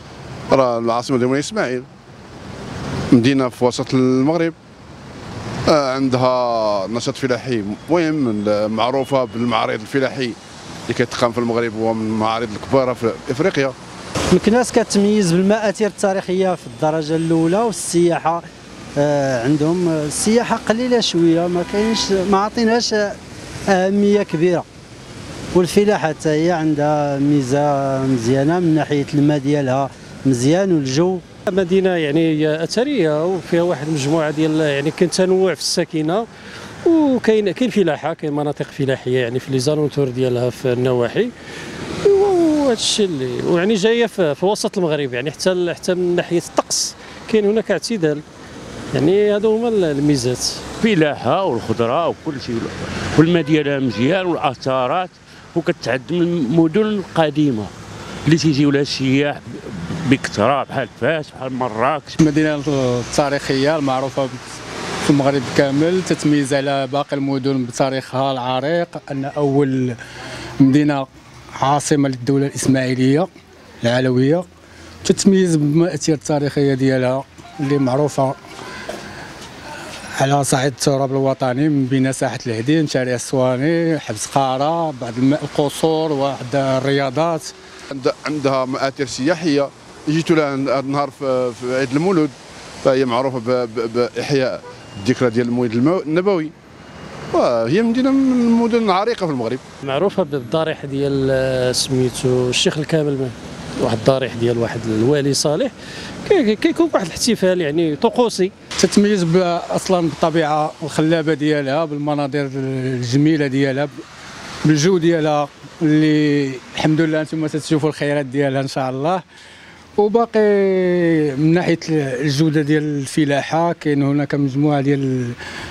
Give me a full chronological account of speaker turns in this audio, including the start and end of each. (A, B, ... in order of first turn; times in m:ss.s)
0:00.5-0:01.9 A
0:03.1-0:04.6 A
0:05.6-0:13.8 A
0:14.3-0:18.4 B
0:19.0-0:23.2 B
0:23.7-0:24.6 B
0:25.5-0:31.2 B
0:31.5-0:36.2 C
0:36.8-0:41.3 C
0:42.0-0:48.2 C
0:48.9-0:50.6 C
0:50.8-0:57.7 D
0:58.2-1:02.2 D
1:02.2-1:04.4 E
1:05.0-1:10.0 E
1:10.6-1:11.1 E
1:11.6-1:13.3 E
1:13.8-1:14.5 E
1:15.0-1:18.4 E
1:20.2-1:27.5 E
1:27.9-1:36.5 A
1:37.3-1:39.6 A
1:39.8-1:45.7 C
1:46.2-1:48.5 C
1:48.8-1:53.9 E
1:54.6-1:59.2 E
2:00.0-2:05.4 E